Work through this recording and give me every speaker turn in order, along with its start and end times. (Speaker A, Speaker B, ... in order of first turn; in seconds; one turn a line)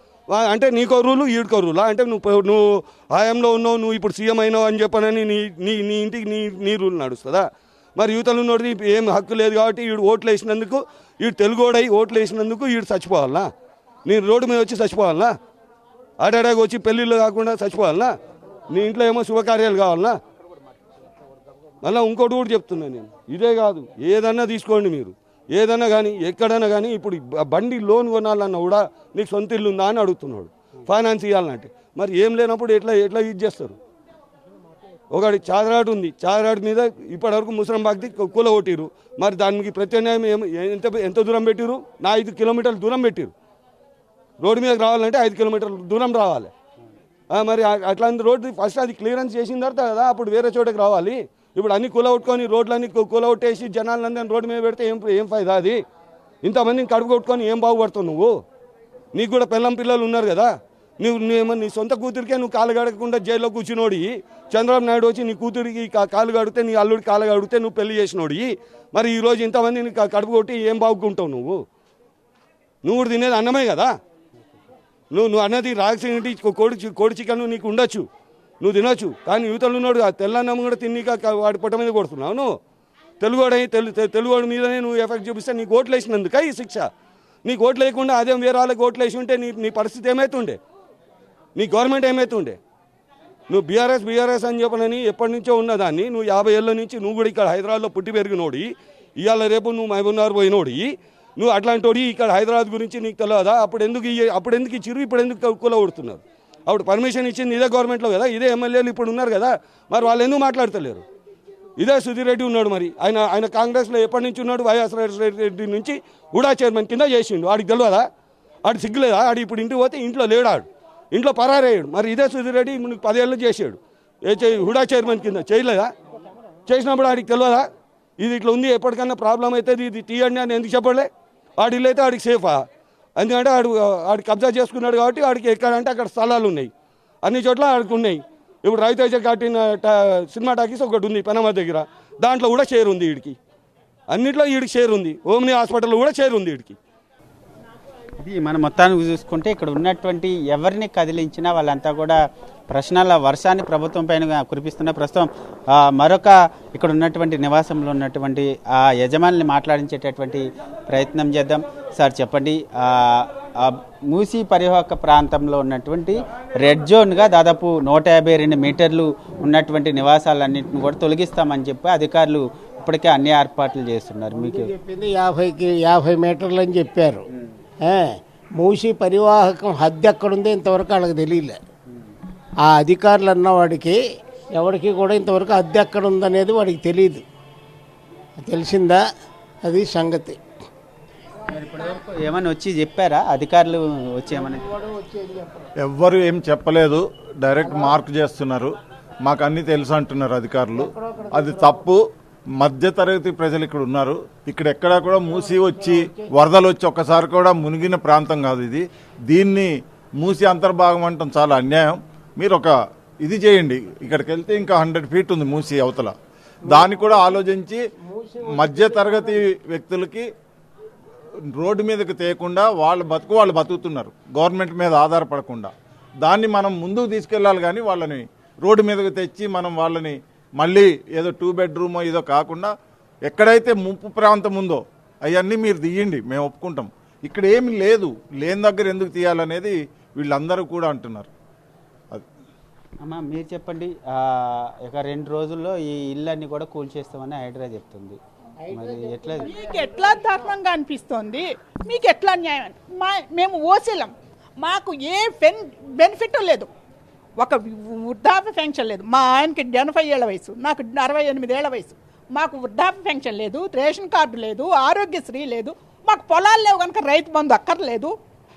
Speaker A: 0.3-7.5
Speaker A: 8.0-13.5
Speaker A: 14.1-15.3
Speaker A: 16.2-18.1
Speaker A: 18.7-20.1
Speaker A: 21.8-33.8
Speaker A: 35.1-43.3
Speaker A: 44.4-46.5
Speaker A: 47.3-55.8
Speaker A: 56.4-58.3
Speaker A: 59.1-71.6
Speaker A: 72.8-73.9
Speaker A: 75.1-78.0
Speaker A: 78.6-82.5
Speaker A: 83.2-86.9
Speaker A: 87.4-90.6
Speaker A: 91.6-92.6
Speaker A: 93.5-98.7
Speaker A: 99.2-111.0
Speaker A: 111.8-118.0
Speaker A: 118.7-125.9
Speaker A: 126.7-127.6
Speaker A: 128.2-131.1
Speaker A: 131.6-132.6
Speaker A: 133.2-136.7
Speaker A: 137.2-143.4
Speaker A: 144.1-146.8
Speaker B: 148.2-174.7
Speaker C: 174.3-177.2
Speaker C: 177.8-181.6
Speaker C: 182.6-184.0
Speaker C: 184.6-187.2
Speaker C: 188.4-189.0
Speaker C: 189.6-190.4
Speaker B: 191.5-194.7
Speaker C: 194.3-195.7
Speaker D: 195.8-198.7
Speaker C: 197.6-198.0
Speaker D: 199.2-202.0
Speaker C: 200.8-201.9
Speaker D: 202.6-212.7
Speaker C: 205.2-206.3
Speaker D: 213.2-216.1
Speaker D: 216.7-217.8
Speaker C: 216.7-217.5
Speaker C: 218.0-219.4
Speaker D: 218.5-220.2
Speaker D: 221.6-225.7
Speaker D: 226.2-232.7
Speaker D: 233.3-241.3
Speaker B: 243.0-248.2
Speaker C: 248.6-250.5
Speaker B: 248.7-249.5
Speaker E: 249.4-256.7
Speaker E: 257.4-268.1